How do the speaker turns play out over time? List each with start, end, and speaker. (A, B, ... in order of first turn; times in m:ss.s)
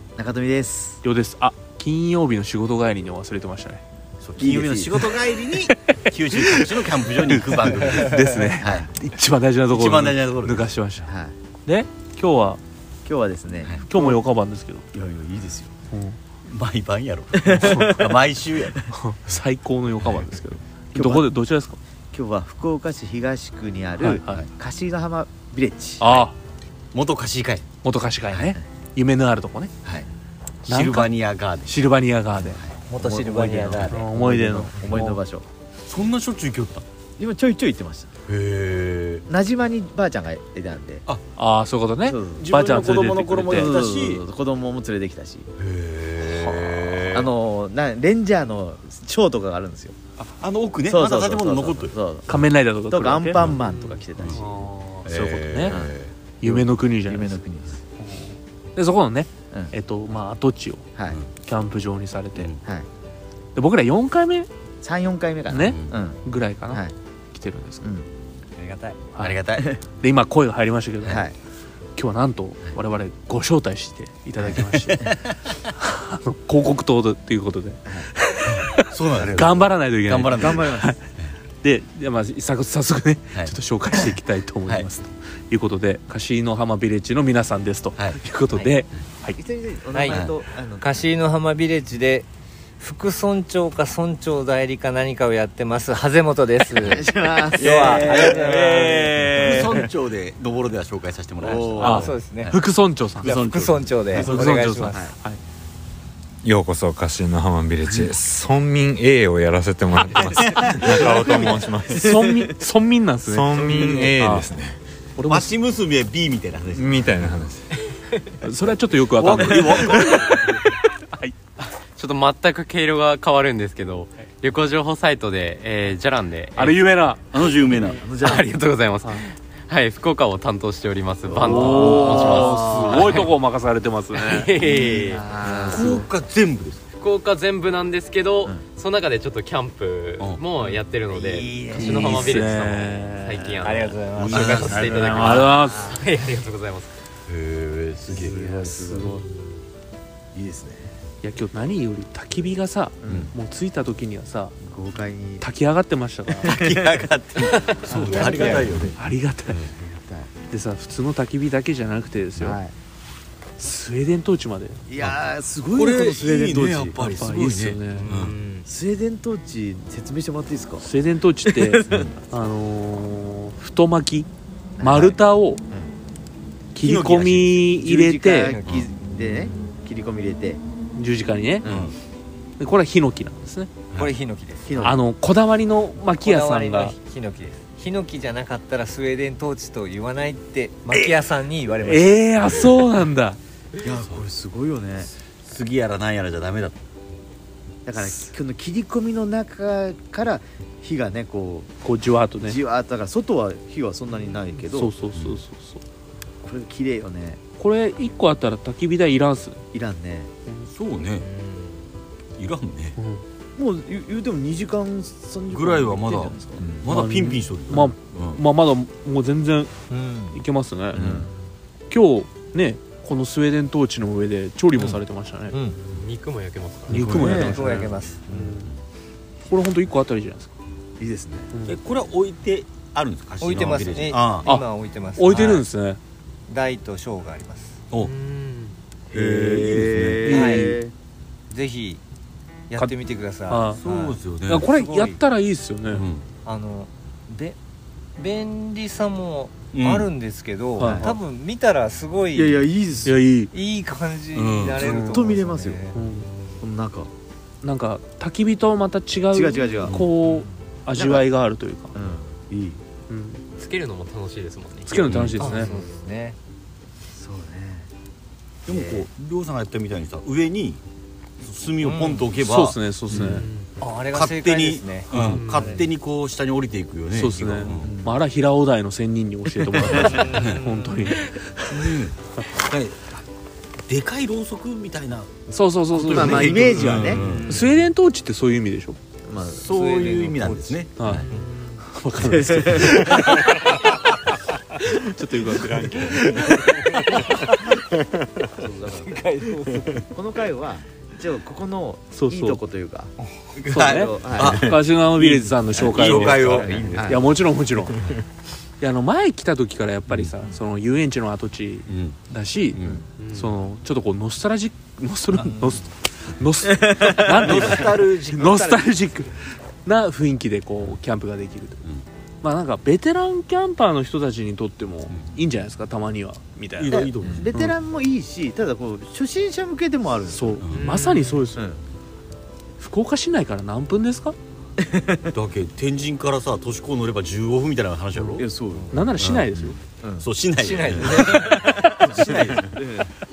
0:00.2-0:01.0 A
0:01.0-0:03.8 B
0:04.2-0:08.9 C
0:04.4-0:05.2 A
0:05.7-0:11.1 B
0:08.6-0:08.9 A
0:09.7-0:10.7 C
0:11.0-0:11.3 A
0:11.7-0:12.6 B
0:13.0-0:14.2 A
0:13.9-0:14.8 B
0:14.9-0:15.7 A
0:15.9-0:16.2 B
0:16.4-0:18.8 C
0:17.3-0:18.1 A
0:17.7-0:18.0 B
0:18.9-0:21.8 B
0:20.0-0:20.3 C
0:20.9-0:21.4 A
0:22.1-0:26.2 A
0:24.0-0:24.4 B
0:26.0-0:26.3 B
0:26.9-0:27.7 C
0:27.8-0:29.7 B
0:28.3-0:28.6 A
0:30.7-0:31.8 C
0:30.7-0:32.6 B
0:32.5-0:34.0 C
0:32.9-0:34.0 D
0:32.9-0:35.5 A
0:33.9-0:35.2 B
0:35.9-0:36.8 C
0:37.2-0:38.1 A
0:38.3-0:39.3 C
0:39.3-0:41.0 A
0:41.4-0:43.7 B
0:42.0-0:42.5 A
0:42.4-0:44.2 C
0:43.5-0:45.5 A
0:45.6-0:47.3 C
0:46.2-0:50.0 A
0:50.2-0:52.0 C
0:50.8-0:54.6 A
0:52.3-0:53.5 B
0:53.7-0:54.0 E
0:54.3-0:55.8 B
0:55.0-0:56.1 C
0:55.7-0:57.8 A
0:56.4-0:57.4 B
0:58.0-1:00.9 B
1:01.4-1:02.5 B
1:02.4-1:02.9 A
1:03.6-1:04.5 B
1:04.8-1:06.9 A
1:05.5-1:07.8 B
1:05.5-1:06.0 C
1:07.8-1:08.1 A
1:08.6-1:09.1 D
1:09.1-1:11.2 B
1:09.2-1:09.7 C
1:09.6-1:09.8 A
1:11.0-1:11.4 A
1:12.0-1:15.0 B
1:14.4-1:14.7 A
1:15.7-1:21.0 B
1:18.9-1:21.3 C
1:20.4-1:20.9 A
1:21.6-1:29.4 B
1:28.5-1:28.8 D
1:29.4-1:31.0 A
1:29.9-1:30.2 D
1:30.1-1:30.3 C
1:30.8-1:32.3 D
1:32.8-1:37.1 D
1:36.8-1:38.4 A
1:37.6-1:42.1 C
1:37.7-1:39.2 D
1:39.2-1:39.9 B
1:41.4-1:42.1 A
1:41.4-1:42.6 D
1:41.8-1:43.3 B
1:43.2-1:44.6 C
1:43.3-1:45.1 D
1:44.3-1:45.4 B
1:44.9-1:45.1 A
1:46.4-1:52.5 F
1:50.3-1:51.3 C
1:51.1-1:52.4 A
1:51.9-1:54.5 B
1:53.2-1:54.8 F
1:55.2-1:55.5 B
1:55.2-1:57.5 C
1:56.7-1:57.6 F
1:58.4-2:00.4 B
1:59.1-2:00.6 C
2:02.0-2:06.8 E
2:06.6-2:07.3 B
2:07.3-2:08.1 C
2:07.8-2:08.5 A
2:08.1-2:13.4 E
2:11.2-2:13.3 C
2:11.4-2:14.5 B
2:11.8-2:12.9 F
2:14.1-2:15.9 E
2:14.6-2:16.0 A
2:15.7-2:16.8 C
2:17.0-2:27.0 E
2:21.1-2:22.5 A
2:21.8-2:23.4 B
2:22.2-2:22.7 F
2:23.7-2:24.8 D
2:24.2-2:25.5 C
2:24.4-2:25.8 F
2:24.9-2:25.9 B
2:27.3-2:28.5 C
2:28.1-2:29.1 A
2:28.2-2:29.2 B
2:29.0-2:29.6 E
2:30.3-2:30.9 A
2:31.2-2:34.6 B
2:33.0-2:33.3 A
2:33.1-2:33.3 C
2:34.6-2:35.5 A
2:35.4-2:36.5 B
2:36.3-2:38.6 A
2:36.5-2:39.7 C
2:37.6-2:38.5 E
2:37.9-2:39.6 B
2:39.7-2:40.3 A
2:40.5-2:42.6 B
2:42.4-2:42.7 A
2:43.6-2:44.8 B
2:44.9-2:47.0 A
2:45.0-2:48.4 C
2:47.0-2:48.1 B
2:47.9-2:48.7 E
2:48.6-2:50.9 A
2:50.8-2:54.3 B
2:51.5-2:52.1 A
2:54.8-2:55.9 A
2:54.8-2:55.6 B
2:56.8-2:58.5 B
2:56.8-2:57.8 C
2:57.8-3:00.6 A
2:58.5-2:58.8 D
2:58.6-2:58.9 C
3:01.0-3:01.6 B
3:01.6-3:01.9 A
3:01.6-3:01.9 C
3:02.6-3:03.8 B
3:04.0-3:04.9 D
3:04.7-3:05.0 A
3:04.8-3:07.0 B
3:06.1-3:12.3 D
3:11.8-3:13.4 B
3:12.4-3:12.7 C
3:13.8-3:15.1 A
3:13.9-3:14.3 C
3:15.4-3:16.8 C
3:17.9-3:21.7 A
3:21.8-3:22.6 B
3:22.4-3:24.9 A
3:24.7-3:25.8 B
3:25.1-3:25.4 C
3:26.4-3:27.4 A
3:27.6-3:29.6 B
3:29.7-3:30.3 A
3:30.7-3:31.3 C
3:31.2-3:31.9 E
3:32.4-3:33.0 C
3:33.0-3:33.2 B
3:33.6-3:36.6 A
3:35.5-3:38.4 C
3:36.6-3:39.7 B
3:39.9-3:40.4 D
3:40.3-3:41.0 B
3:40.9-3:41.3 C
3:40.9-3:41.3 A
3:41.9-3:45.6 B
3:44.8-3:45.8 D
3:45.7-3:47.9 E
3:46.9-3:48.7 B
3:46.9-3:47.9 C
3:47.1-3:47.6 A
3:47.3-3:47.6 F
3:47.6-3:48.5 D
3:49.4-3:50.5 B
3:51.0-3:51.5 A
3:51.5-3:51.8 B
3:51.7-3:54.5 C
3:53.4-3:55.7 D
3:54.4-3:56.0 B
3:56.5-3:57.8 D
3:58.0-3:58.8 E
3:59.1-4:00.4 C
3:59.1-4:00.9 A
3:59.3-3:59.6 B
4:00.3-4:00.8 B
4:00.3-4:00.7 D
4:01.5-4:02.0 D
4:02.7-4:05.2 D
4:03.4-4:03.8 B
4:03.7-4:04.7 C
4:04.5-4:06.0 B
4:05.9-4:06.2 C
4:06.4-4:07.6 D
4:08.2-4:12.7 D
4:09.7-4:10.1 C
4:10.8-4:11.2 B
4:10.8-4:11.1 A
4:12.3-4:13.3 A
4:13.0-4:13.5 B
4:13.5-4:16.3 D
4:14.3-4:14.9 C
4:14.8-4:15.3 B
4:14.8-4:15.8 A
4:15.9-4:16.3 B
4:16.6-4:17.1 A
4:17.6-4:21.9 B
4:19.3-4:20.0 A
4:20.2-4:20.5 D
4:21.0-4:21.3 A
4:21.9-4:22.8 A
4:23.1-4:23.4 B
4:23.6-4:25.2 E
4:24.9-4:25.7 B
4:25.0-4:25.6 C
4:25.4-4:26.4 D
4:27.1-4:27.9 A
4:28.7-4:30.8 C
4:28.7-4:29.1 A
4:31.4-4:33.4 C
4:31.8-4:32.3 D
4:32.4-4:33.5 B
4:33.1-4:33.7 E
4:33.8-4:35.8 D
4:34.1-4:38.0 C
4:35.1-4:35.9 E
4:37.1-4:42.5 B
4:39.6-4:40.1 A
4:39.9-4:40.6 F
4:40.1-4:40.6 C
4:40.2-4:41.2 D
4:41.7-4:43.0 C
4:43.9-4:47.7 C
4:45.5-4:49.0 B
4:46.1-4:47.2 A
4:47.0-4:47.7 E
4:49.3-4:49.7 A
4:49.4-4:51.2 C
4:49.7-4:51.5 D
4:51.0-4:51.2 B
4:51.3-4:51.8 E
4:51.8-4:53.5 B
4:52.2-4:53.2 A
4:52.9-4:53.8 F
4:55.0-4:57.5 B
4:55.5-4:58.4 F
4:58.6-4:59.2 A
4:59.2-4:59.7 D
5:00.0-5:03.1 A
5:02.1-5:02.6 B
5:03.6-5:07.3 C
5:03.7-5:08.0 B
5:03.8-5:04.8 A
5:04.4-5:04.7 F
5:05.8-5:07.1 F
5:05.8-5:07.2 A
5:08.8-5:21.8 B
5:11.9-5:12.2 C
5:12.7-5:13.0 C
5:13.2-5:13.6 E
5:15.3-5:15.7 C
5:16.8-5:17.1 A
5:17.1-5:19.1 C
5:22.4-5:27.8 B
5:26.8-5:27.5 C
5:26.9-5:30.7 A
5:30.3-5:31.7 B
5:30.6-5:31.0 C
5:30.7-5:31.5 E
5:32.8-5:34.4 B
5:34.8-5:35.3 A
5:35.3-5:38.4 C
5:38.1-5:39.8 B
5:38.4-5:39.0 A
5:39.1-5:42.8 C
5:40.0-5:40.3 A
5:40.5-5:41.9 D
5:41.3-5:43.1 A